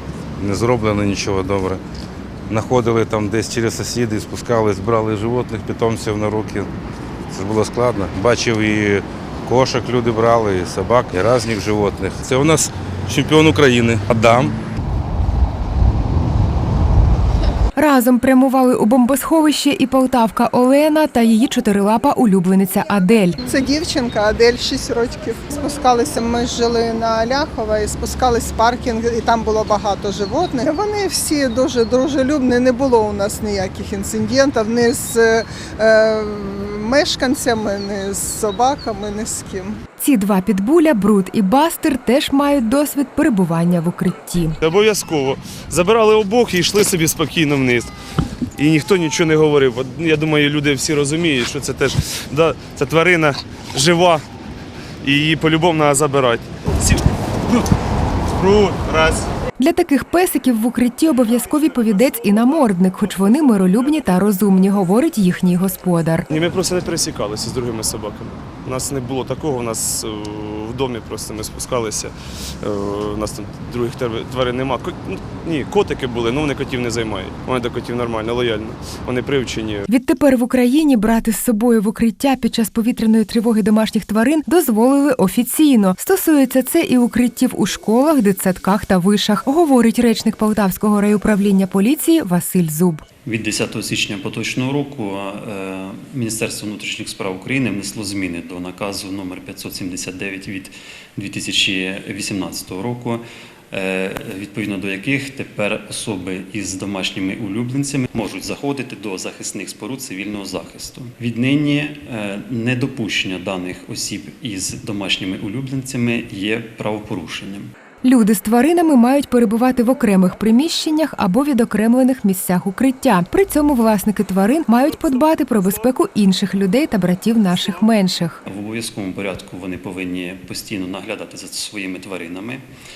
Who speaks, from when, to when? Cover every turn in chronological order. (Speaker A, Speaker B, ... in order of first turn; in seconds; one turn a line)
Speaker A: 0.4-1.8
Speaker A: 2.5-6.7
Speaker A: 7.3-14.5
Speaker B: 17.8-23.4
Speaker C: 23.4-39.8
Speaker B: 40.0-44.6
Speaker D: 44.6-47.9
Speaker D: 48.5-54.2
Speaker D: 55.0-57.7
Speaker D: 58.2-59.3
Speaker B: 59.6-66.3
Speaker D: 66.3-79.9
Speaker B: 79.9-93.0
Speaker E: 93.2-117.7
Speaker B: 118.0-128.4
Speaker E: 128.4-132.6